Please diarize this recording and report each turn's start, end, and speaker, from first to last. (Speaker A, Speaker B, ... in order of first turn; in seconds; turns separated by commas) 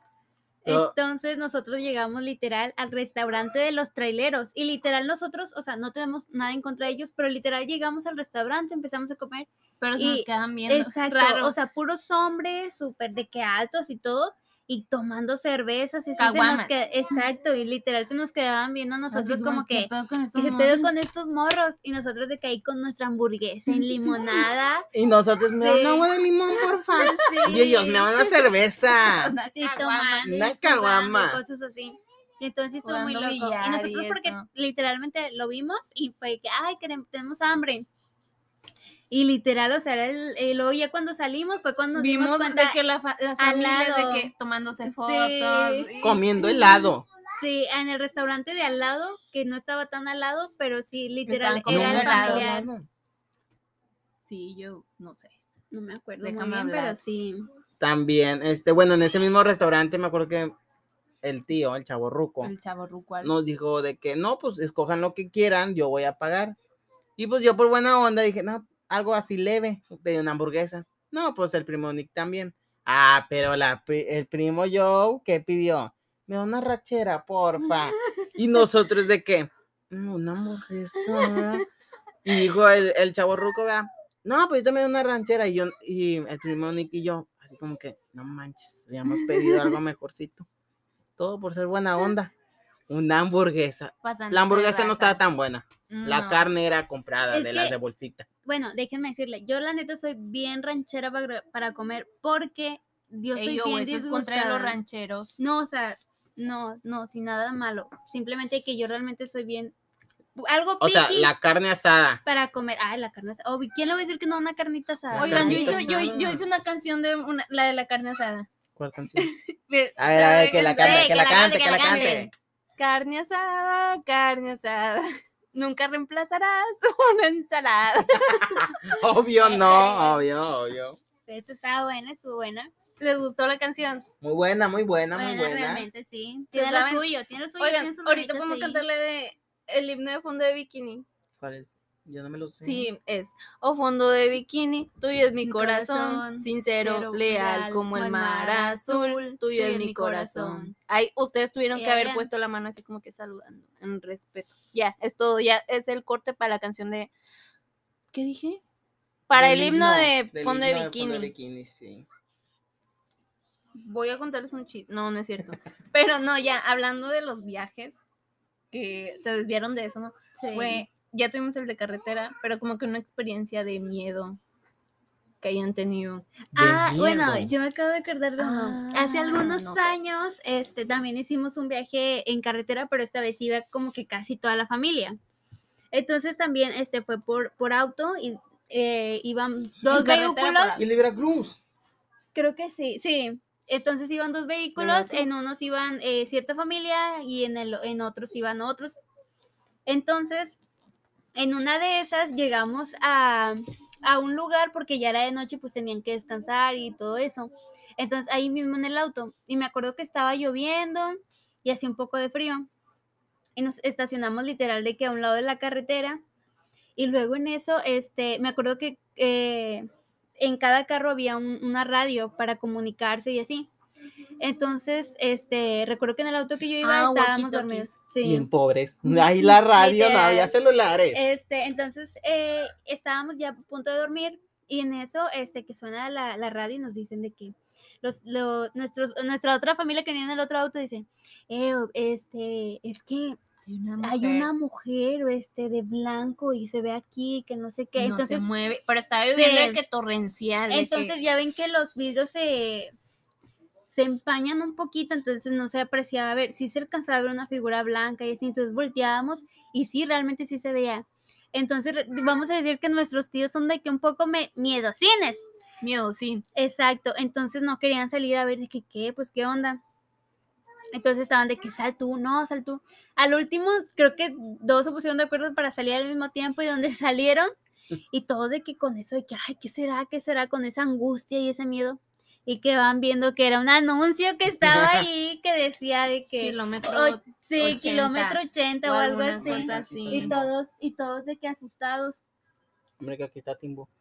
Speaker A: 0.6-24.9, Speaker B: 0.7-0.9, Speaker C: 9.8-11.5, Speaker C: 16.2-16.7, Speaker C: 19.1-20.9, Speaker C: 23.7-24.4, Speaker B: 24.9-29.3, Speaker A: 25.5-26.1, Speaker A: 26.9-28.1, Speaker C: 27.3-27.7, Speaker C: 28.9-30.3, Speaker A: 29.5-37.9, Speaker B: 30.2-31.4, Speaker C: 32.8-34.5, Speaker A: 39.1-42.8, Speaker C: 41.9-46.2, Speaker A: 43.4-44.3, Speaker A: 44.9-52.7, Speaker B: 46.0-47.0, Speaker C: 51.3-52.5, Speaker B: 51.7-52.9, Speaker C: 54.3-55.3, Speaker A: 55.7-57.5, Speaker C: 56.2-57.0, Speaker B: 57.8-60.5, Speaker B: 61.2-62.5, Speaker C: 62.4-63.3, Speaker B: 63.2-66.5, Speaker B: 67.2-81.7, Speaker C: 81.0-81.6, Speaker B: 82.2-90.5, Speaker C: 89.3-89.6, Speaker B: 91.2-92.3, Speaker B: 92.9-98.3, Speaker C: 94.0-95.2, Speaker C: 95.9-96.5, Speaker A: 97.3-97.8, Speaker A: 98.4-104.8, Speaker C: 103.3-105.3, Speaker A: 105.4-109.7, Speaker A: 110.4-111.3, Speaker B: 110.8-112.2, Speaker A: 112.2-115.9, Speaker B: 115.1-116.4, Speaker C: 115.2-118.5, Speaker B: 118.8-119.3, Speaker C: 119.2-128.9, Speaker B: 120.0-122.3, Speaker A: 120.7-122.3, Speaker B: 128.3-131.0, Speaker A: 129.4-130.2, Speaker C: 129.5-129.8, Speaker A: 131.3-132.7, Speaker C: 133.0-134.0, Speaker B: 134.2-135.9, Speaker A: 135.1-138.8, Speaker C: 136.5-141.0, Speaker B: 141.4-142.9, Speaker C: 142.6-157.1, Speaker A: 145.4-150.7, Speaker A: 151.7-152.3, Speaker C: 158.1-158.6, Speaker C: 159.3-161.3, Speaker B: 159.3-162.1, Speaker C: 163.8-168.0, Speaker C: 168.7-174.4, Speaker A: 170.4-170.8, Speaker C: 175.4-176.3, Speaker A: 176.5-185.2, Speaker B: 176.5-177.5, Speaker C: 178.4-179.9, Speaker A: 185.9-190.8, Speaker C: 189.9-190.8, Speaker B: 190.8-191.6, Speaker A: 192.3-199.0, Speaker B: 194.8-195.3, Speaker A: 199.8-200.6, Speaker A: 201.3-212.7, Speaker A: 213.6-216.2, Speaker A: 216.9-223.7, Speaker A: 224.4-228.5, Speaker C: 226.8-227.9, Speaker B: 228.2-231.3, Speaker A: 229.1-230.5, Speaker A: 231.1-243.4, Speaker C: 243.7-244.5, Speaker A: 244.0-248.5, Speaker C: 248.0-251.2, Speaker A: 249.3-249.8, Speaker A: 250.7-252.9, Speaker A: 253.9-265.5, Speaker C: 265.8-266.4, Speaker A: 266.5-269.8, Speaker A: 270.9-277.5, Speaker A: 278.1-292.2, Speaker B: 284.6-285.1, Speaker C: 286.4-290.3, Speaker B: 289.3-290.5, Speaker B: 293.0-293.9